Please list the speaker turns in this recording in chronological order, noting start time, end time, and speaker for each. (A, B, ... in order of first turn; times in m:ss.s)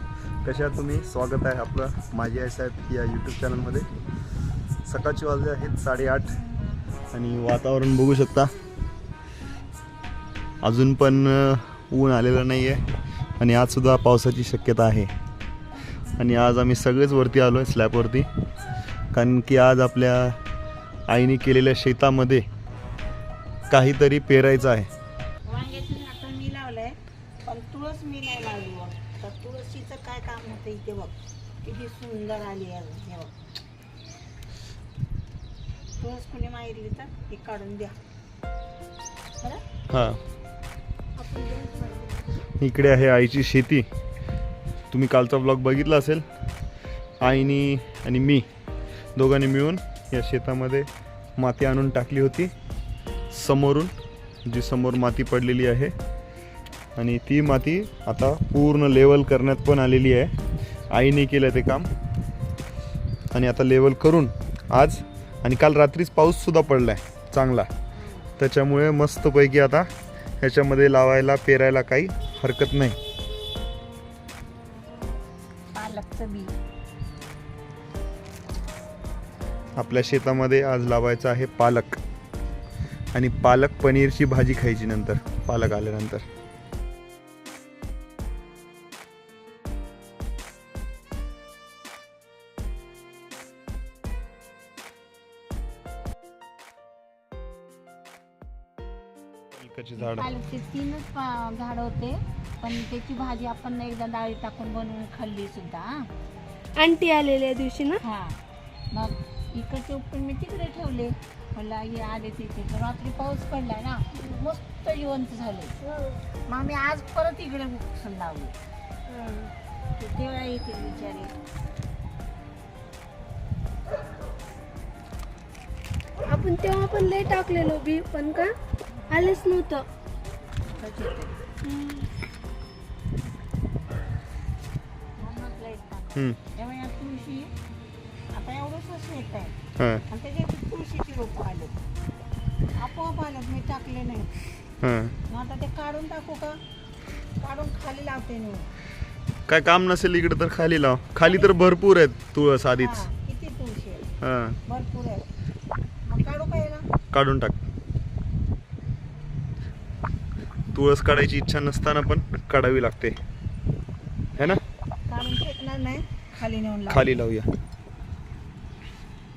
0:00.4-0:03.9 A
0:04.8-0:06.4 A
0:07.1-0:08.5 A
0:10.6-0:12.8 A
0:13.4-0:15.1 A
0:16.2-0:18.3 A
0:19.1-0:20.4 A
0:21.1-0:22.4 A
0:23.7-0:24.9 A
0:25.5-0:33.3 B
0:36.0-0:38.0 B
0:39.9-0:40.2 A
0:41.2-0:42.1 B
0:42.6-0:43.9 A
0:44.9-0:46.2 A
0:47.2-0:48.5 A
0:49.2-0:52.5 A
0:53.3-0:53.9 A
0:54.5-0:55.9 A
0:57.0-1:00.3 A
1:00.9-1:01.9 A
1:03.3-1:07.7 A
1:08.0-1:08.3 B
1:08.4-1:09.9 A
1:10.4-1:13.0 A
1:15.7-1:16.5 B
1:19.8-1:22.0 A
1:23.1-1:26.2 A
1:39.5-1:40.3 A
1:40.0-1:46.1 B
1:46.8-1:48.0 C
1:48.0-1:48.4 B
1:48.9-1:55.8 B
1:54.1-1:54.4 C
1:55.8-1:56.2 C
1:56.5-1:58.6 B
1:59.1-1:59.5 C
2:00.0-2:01.3 B
2:06.3-2:08.5 C
2:09.0-2:09.4 B
2:09.1-2:09.9 C
2:10.8-2:11.4 B
2:11.6-2:12.1 C
2:15.2-2:17.5 B
2:18.3-2:19.6 B
2:19.8-2:20.0 A
2:20.1-2:21.8 B
2:22.8-2:24.3 B
2:24.8-2:25.2 A
2:25.3-2:26.6 B
2:27.4-2:28.7 B
2:29.5-2:33.1 A
2:31.2-2:31.6 B
2:32.8-2:34.1 B
2:34.2-2:34.6 A
2:34.7-2:35.3 B
2:36.1-2:36.8 B
2:37.1-2:37.6 A
2:40.7-2:43.2 A
2:44.4-2:44.6 A
2:45.1-2:47.2 B
2:46.9-2:47.5 A